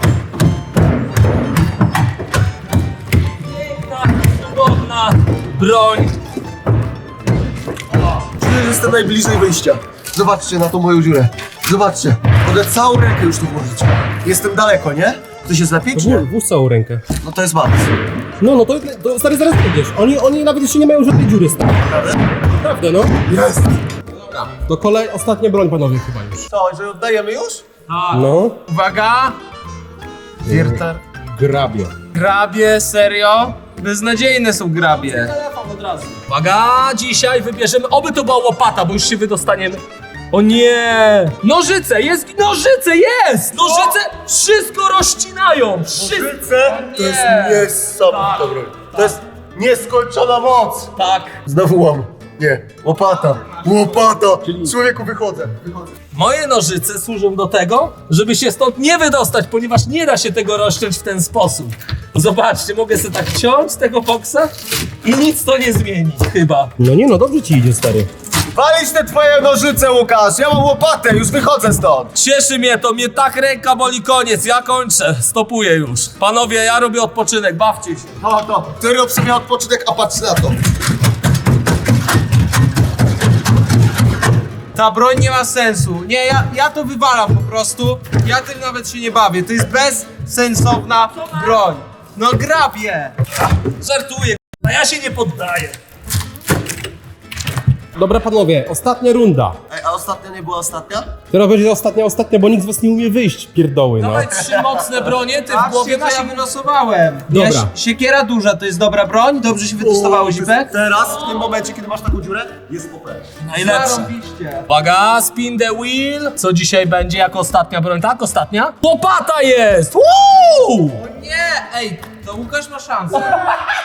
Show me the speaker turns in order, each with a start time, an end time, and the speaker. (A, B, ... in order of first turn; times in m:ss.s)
0:03.4-0:06.2 A
0:08.2-0:16.3 B
0:15.9-0:17.0 C
0:17.2-0:17.9 B
0:18.4-0:21.8 C
0:21.9-0:22.2 B
0:22.5-0:23.2 C
0:23.2-0:23.7 B
0:24.1-0:26.4 C
0:26.5-0:27.6 B
0:27.9-0:28.4 A
0:28.1-0:28.6 C
0:28.7-0:29.4 D
0:30.4-0:31.0 B
0:30.4-0:30.8 C
0:31.3-0:31.9 C
0:32.1-0:35.3 D
0:34.8-0:49.2 A
0:43.6-0:44.0 D
0:46.0-0:55.9 B
0:51.0-0:51.4 A
0:53.2-0:54.0 D
0:54.4-0:54.7 C
0:56.1-1:06.7 A
1:06.8-1:08.1 C
1:08.5-1:12.1 B
1:12.1-1:18.1 A
1:18.2-1:20.6 B
1:24.7-1:33.1 D
1:31.2-1:31.6 A
1:33.8-1:35.8 A
1:38.0-1:39.6 C
1:39.7-1:41.1 B
1:41.3-1:44.3 C
1:44.0-1:46.4 A
1:44.3-1:45.1 B
1:45.5-1:50.7 D
1:47.3-1:47.7 C
1:49.8-1:53.2 B
1:53.4-1:54.1 A
1:53.5-1:54.7 D
1:54.7-2:01.0 A
2:00.9-2:03.4 D
2:03.2-2:03.5 A